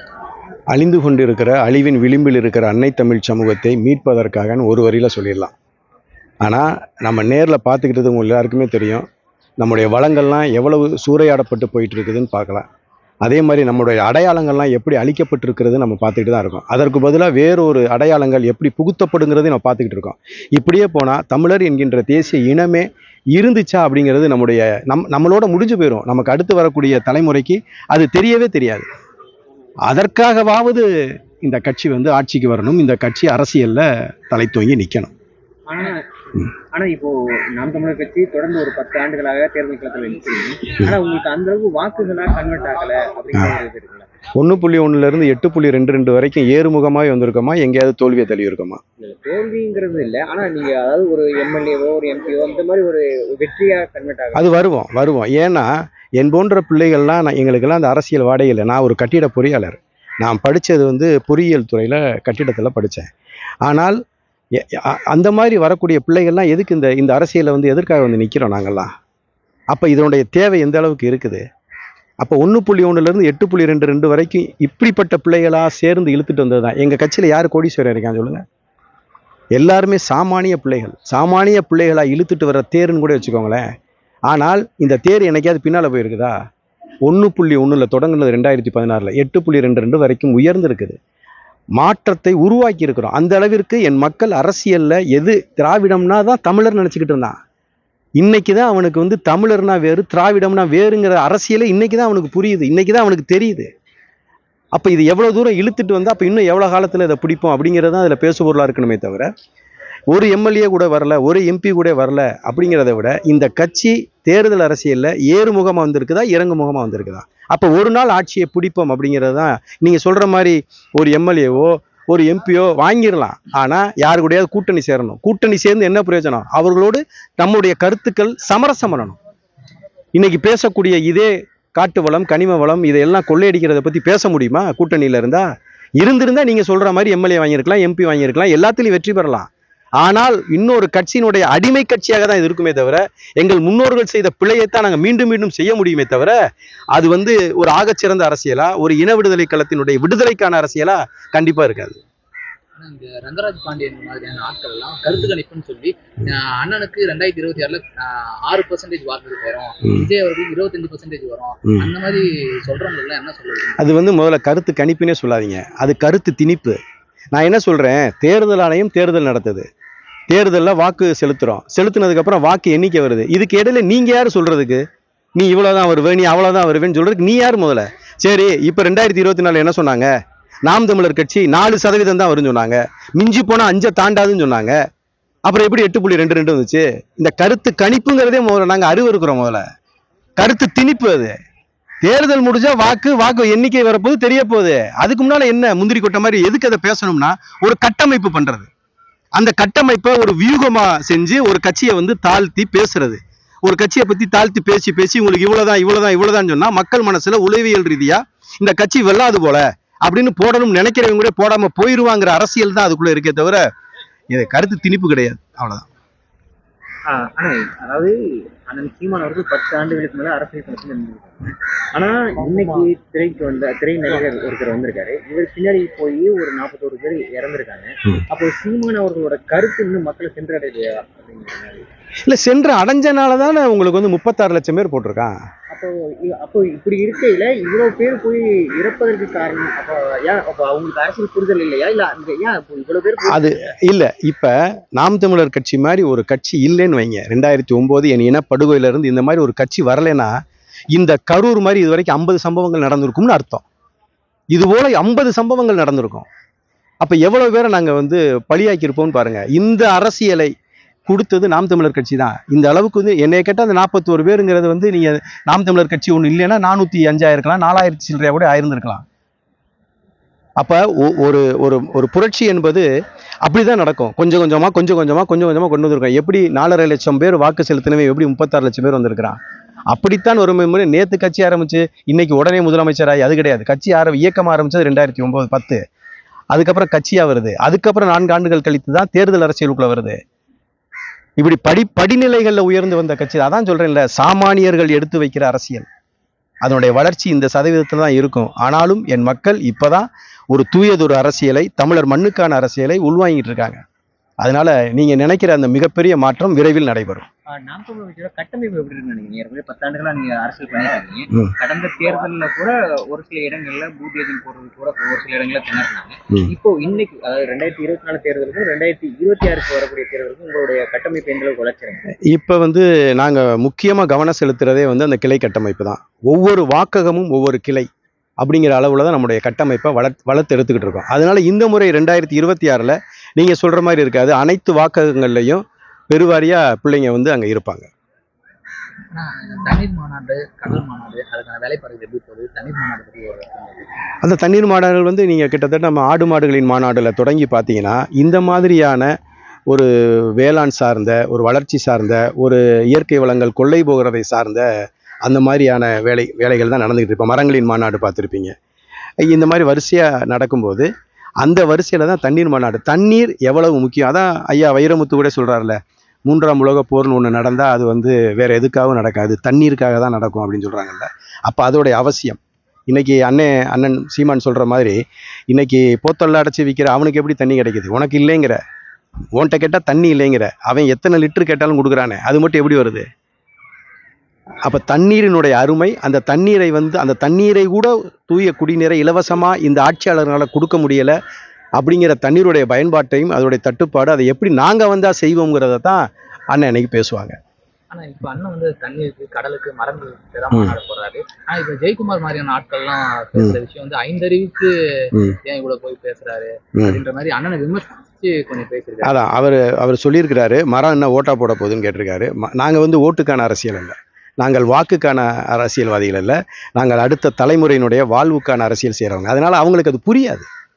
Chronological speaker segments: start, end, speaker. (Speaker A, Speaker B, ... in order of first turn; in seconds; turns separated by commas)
Speaker A: 0.7-5.5, Speaker A: 6.4-9.0, Speaker A: 9.6-12.6, Speaker A: 13.2-28.9, Speaker A: 29.9-30.9, Speaker A: 31.4-35.1, Speaker B: 35.7-44.1, Speaker A: 44.4-48.8, Speaker B: 49.0-54.5, Speaker A: 54.3-63.1, Speaker A: 63.6-64.0, Speaker A: 64.5-68.9, Speaker A: 69.7-71.4, Speaker A: 72.2-78.4, Speaker A: 79.5-83.6, Speaker A: 84.3-86.4, Speaker A: 87.0-91.0, Speaker A: 91.8-97.3, Speaker A: 98.2-103.7, Speaker A: 104.7-109.3, Speaker A: 110.1-129.2, Speaker A: 130.2-146.4, Speaker A: 146.9-152.0, Speaker C: 152.8-163.8, Speaker A: 159.8-160.1, Speaker A: 161.7-161.9, Speaker A: 163.8-166.8, Speaker A: 167.3-169.7, Speaker A: 170.3-174.8, Speaker A: 175.3-180.1, Speaker A: 180.7-184.8, Speaker A: 185.4-189.6, Speaker A: 190.4-191.3, Speaker A: 192.0-198.7, Speaker A: 199.3-213.6, Speaker A: 214.3-215.8, Speaker B: 217.1-231.9, Speaker A: 232.3-235.3, Speaker B: 235.7-243.7, Speaker A: 243.3-250.3, Speaker A: 250.9-253.6, Speaker A: 254.5-256.2, Speaker A: 257.0-260.5, Speaker A: 261.1-269.0, Speaker A: 270.6-272.9, Speaker A: 273.4-279.4, Speaker A: 279.9-285.8, Speaker A: 286.5-290.2, Speaker A: 291.4-295.9, Speaker A: 296.6-303.8, Speaker A: 304.4-307.3, Speaker B: 307.5-322.1, Speaker A: 322.3-327.9, Speaker A: 328.4-337.9, Speaker C: 339.1-343.9, Speaker A: 344.2-349.1, Speaker A: 349.7-354.6, Speaker A: 355.2-358.5, Speaker A: 359.2-360.9, Speaker A: 361.4-375.0, Speaker A: 375.5-378.6, Speaker A: 379.4-383.1, Speaker A: 384.6-391.1, Speaker A: 391.8-397.4, Speaker C: 397.9-409.1, Speaker A: 405.1-405.4, Speaker A: 406.8-407.0, Speaker A: 409.0-420.5